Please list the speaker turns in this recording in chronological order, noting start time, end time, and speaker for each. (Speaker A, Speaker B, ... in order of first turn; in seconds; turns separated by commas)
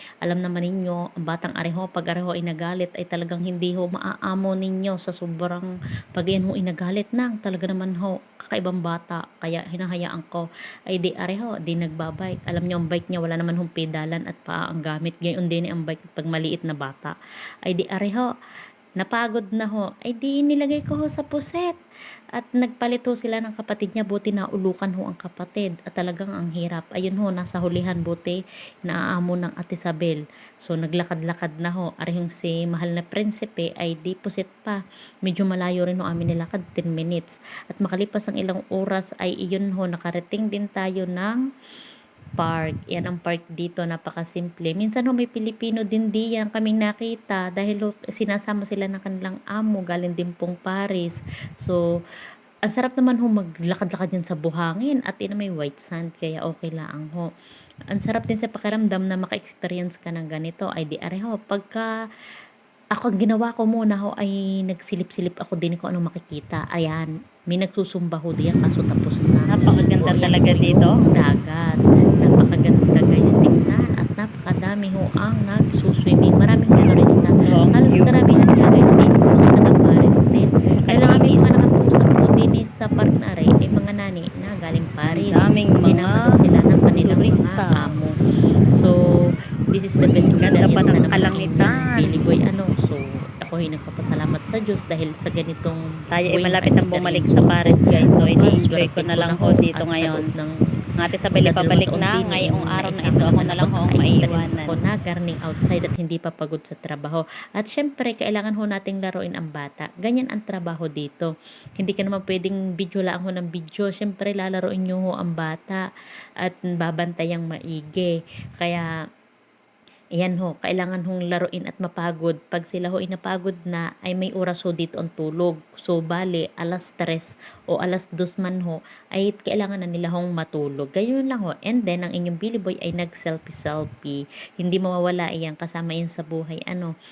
Speaker A: 0.2-17.1, Speaker A: 17.7-18.3, Speaker A: 19.0-21.8, Speaker A: 22.4-41.4, Speaker A: 42.4-51.8, Speaker A: 52.7-57.3, Speaker A: 57.9-61.9, Speaker A: 63.0-88.1, Speaker B: 69.5-71.0, Speaker B: 77.5-78.1, Speaker B: 80.9-81.7, Speaker B: 85.1-86.2, Speaker B: 87.0-87.9, Speaker A: 89.7-95.8, Speaker B: 90.4-92.1, Speaker B: 96.1-100.2, Speaker A: 96.3-97.7, Speaker A: 98.3-100.5, Speaker B: 101.0-104.7, Speaker A: 101.4-115.8, Speaker A: 116.4-118.9, Speaker A: 120.2-136.9